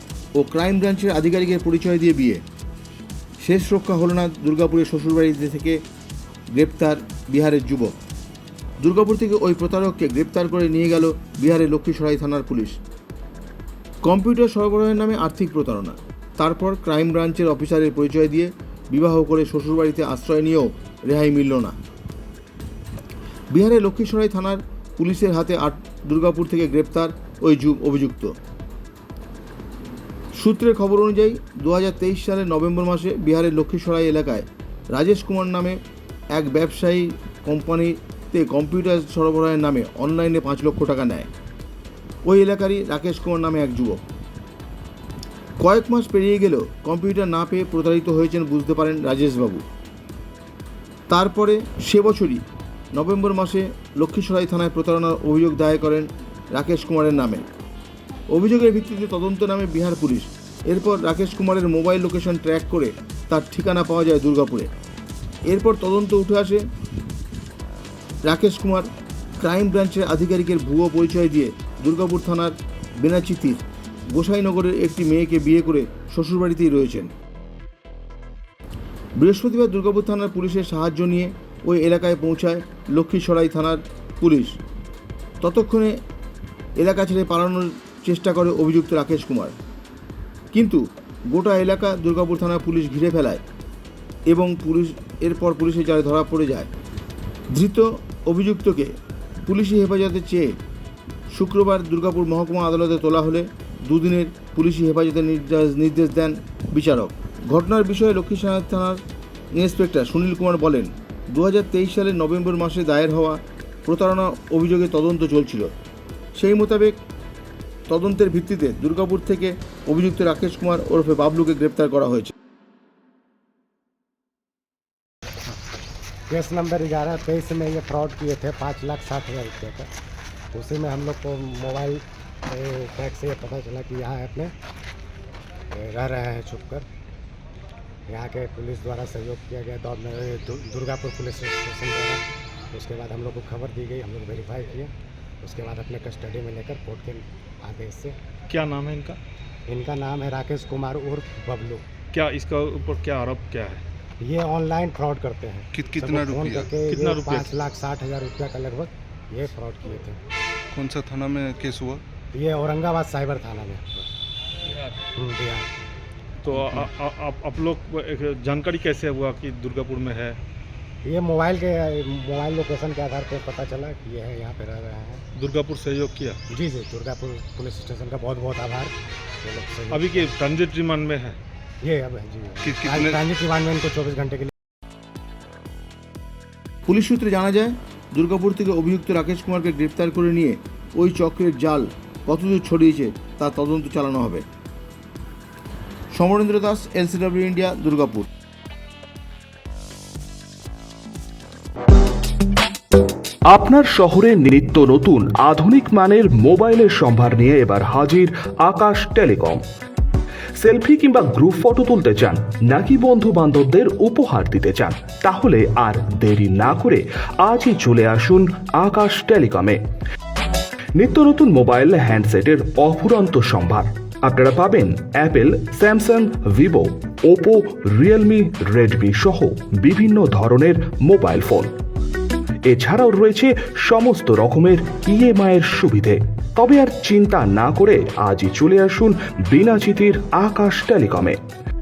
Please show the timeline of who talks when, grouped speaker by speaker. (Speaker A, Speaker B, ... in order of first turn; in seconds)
Speaker A: 0.4-2.4, 3.4-5.8, 6.5-7.9, 8.8-12.8, 14.1-21.8, 23.5-28.4, 30.4-35.8, 36.3-41.3, 42.2-44.0, 45.6-49.6, 51.1-52.4, 53.0-57.5, 58.3-64.7, 65.5-66.6, 68.3-68.9, 69.4-77.1, 79.2-84.6, 85.4-86.0, 86.8-89.6, 90.5-93.4, 94.3-96.7, 97.5-98.9, 99.5-100.5, 101.3-109.0, 109.5-115.7, 116.4-117.0, 117.9-122.3, 186.9-194.4, 196.1-198.3
Speaker B: 126.3-129.9, 130.5-134.5, 135.7-136.9, 138.1-142.2, 142.7-144.9, 145.4-148.2, 149.7-151.8, 154.2-160.2, 162.3-164.1, 165.2-165.7, 166.6-166.9, 171.0-175.2, 176.5-180.3, 181.8-184.5
Speaker C: 148.5-149.2, 152.1-153.8, 156.9-157.5, 166.4-170.4, 175.3-176.4, 179.9-181.4
Speaker D: 155.7-156.7, 160.7-162.0, 182.6-183.2
Speaker E: 203.5-209.6, 210.6-219.8, 221.0-231.7, 232.7-241.4